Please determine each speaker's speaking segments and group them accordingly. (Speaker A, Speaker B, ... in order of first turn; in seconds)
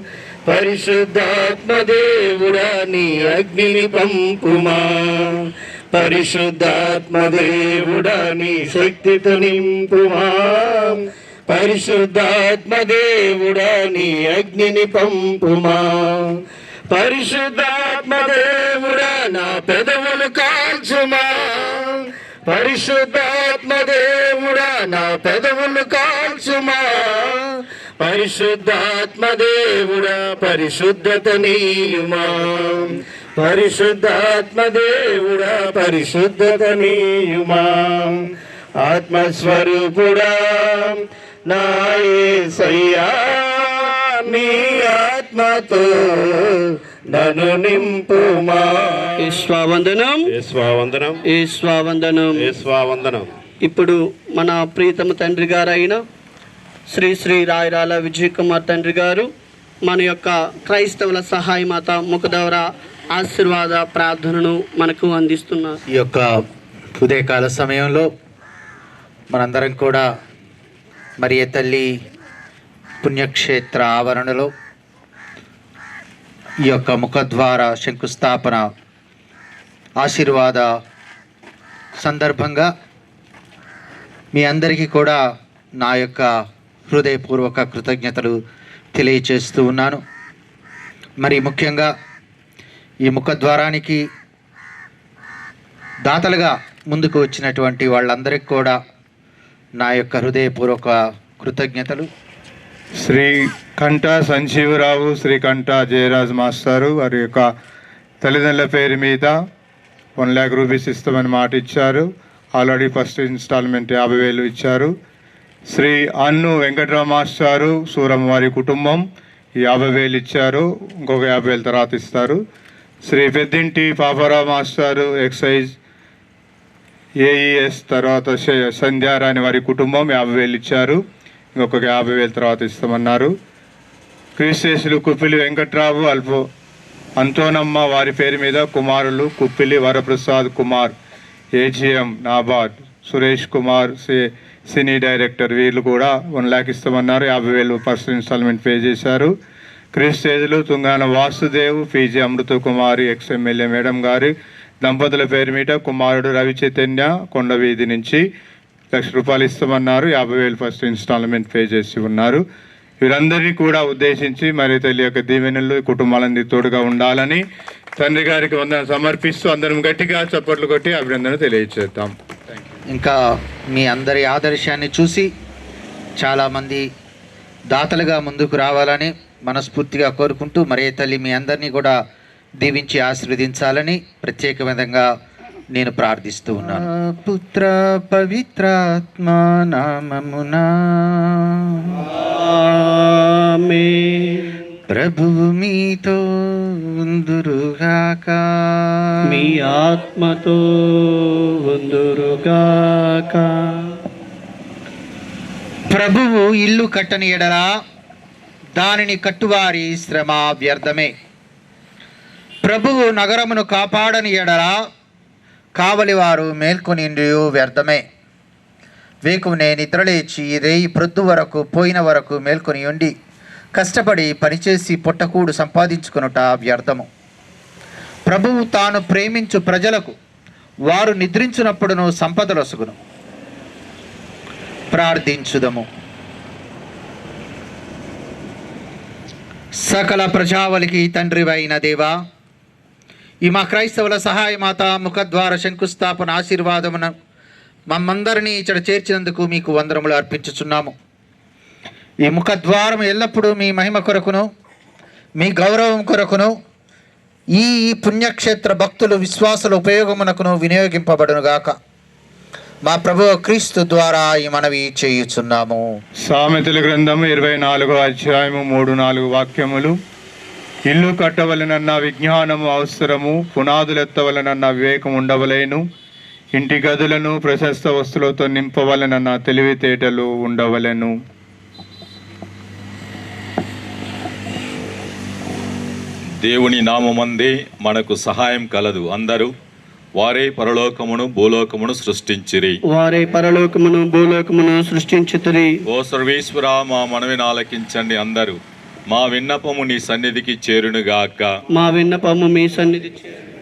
Speaker A: 0.5-5.3, 5.9-16.2, 16.9-38.2, 38.8-49.2, 50.4-51.2, 52.5-53.3
Speaker B: 49.2-50.4, 51.2-52.6, 53.6-56.0, 56.9-59.3, 59.9-65.8, 192.1-194.6, 199.3-204.0, 292.9-295.7, 301.7-303.3
Speaker C: 65.9-66.4, 67.0-68.1, 69.3-70.1, 71.2-71.9, 73.0-74.5, 76.7-78.7, 80.0-80.7, 82.0-82.7, 84.3-85.2, 85.8-86.3, 86.9-88.3, 88.9-90.0, 91.2-91.9, 93.0-94.0, 96.1-98.8, 99.8-102.1, 172.9-173.2, 173.7-175.3, 176.2-176.9, 177.7-181.9, 182.6-185.1, 185.7-192.1, 194.9-199.2, 205.9-207.7, 208.8-211.1, 212.6-214.8, 215.8-218.0, 219.3-223.1, 223.8-227.1, 228.3-230.1, 230.9-233.0, 234.9-235.9, 239.8-242.2, 243.4-247.1, 247.9-250.9, 252.2-254.5, 255.4-256.5, 257.6-261.7, 262.9-265.9
Speaker D: 103.0-107.5, 108.2-109.3, 110.2-114.9, 115.7-119.0, 119.6-122.4, 123.1-125.7, 127.2-131.0, 131.6-133.3, 134.4-136.4, 137.2-140.9, 141.6-149.3, 149.9-158.2, 158.9-162.4, 163.0-167.4, 168.0-172.1, 266.2-270.0, 270.9-275.8, 276.6-281.1
Speaker E: 286.4-289.5, 290.1-292.8, 295.9-301.6